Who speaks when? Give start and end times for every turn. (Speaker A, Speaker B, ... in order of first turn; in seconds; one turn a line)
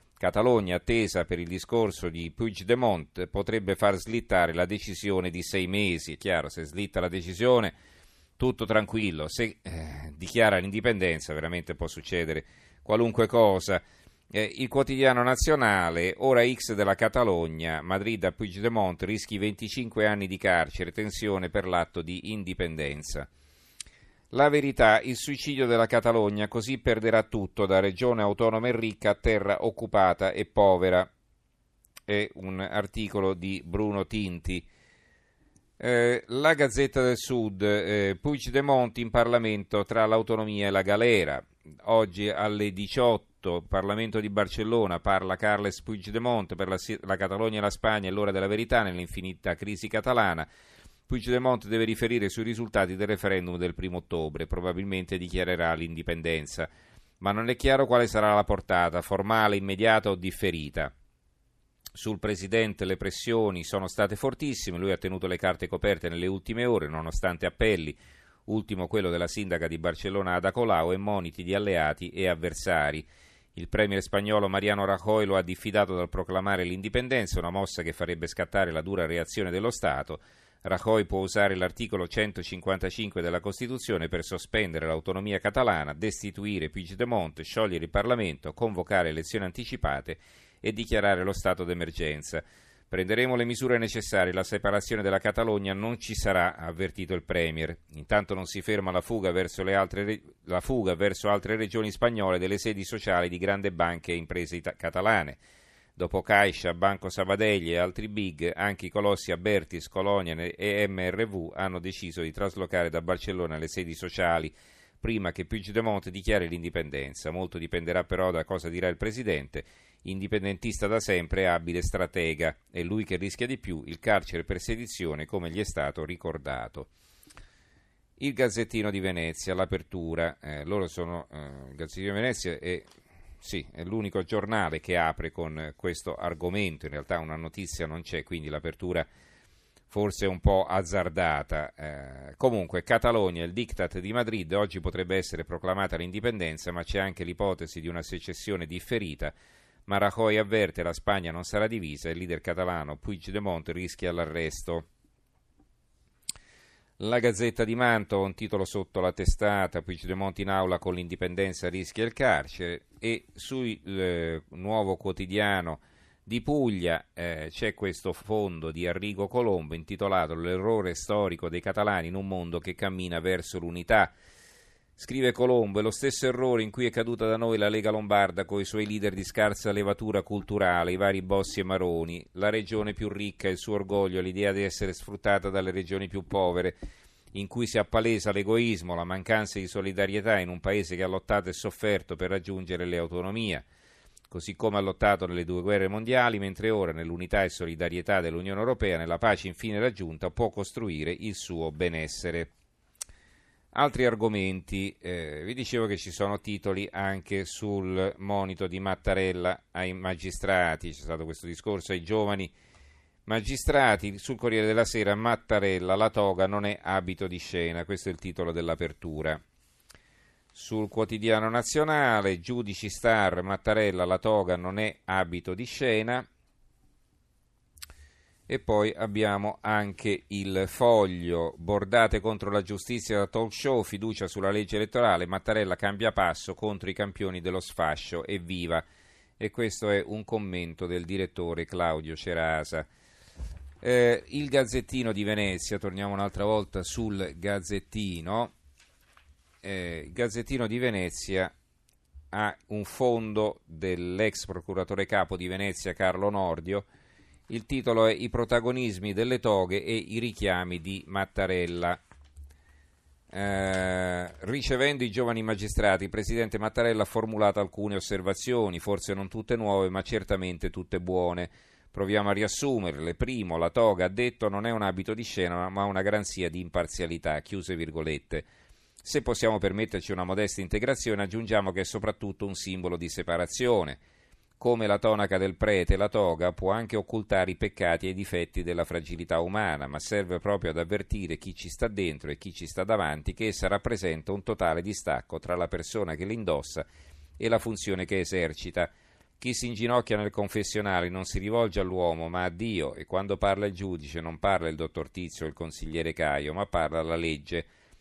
Speaker A: 0.2-7.8
Speaker A: 8.4-23.3
Speaker A: 24.3-31.1
Speaker A: 32.1-34.7
Speaker A: 35.8-50.5
Speaker A: 51.1-60.9
Speaker A: 61.9-105.4
Speaker A: 106.0-126.9
Speaker A: 128.2-132.9
Speaker A: 133.4-139.1
Speaker A: 139.9-149.3
Speaker A: 149.9-154.9
Speaker A: 157.0-174.2
Speaker A: 175.0-186.8
Speaker A: 187.3-193.7
Speaker A: 194.3-202.5
Speaker A: 203.7-212.5
Speaker A: 213.2-219.4
Speaker A: 220.5-226.2
Speaker A: 228.5-238.8
Speaker A: 239.4-242.9
Speaker A: 243.8-248.5
Speaker A: 249.6-251.5
Speaker A: 252.3-256.9
Speaker A: 257.5-262.0
Speaker A: 263.3-278.5
Speaker A: 279.0-284.0
Speaker A: 284.6-296.9
Speaker A: 297.4-307.7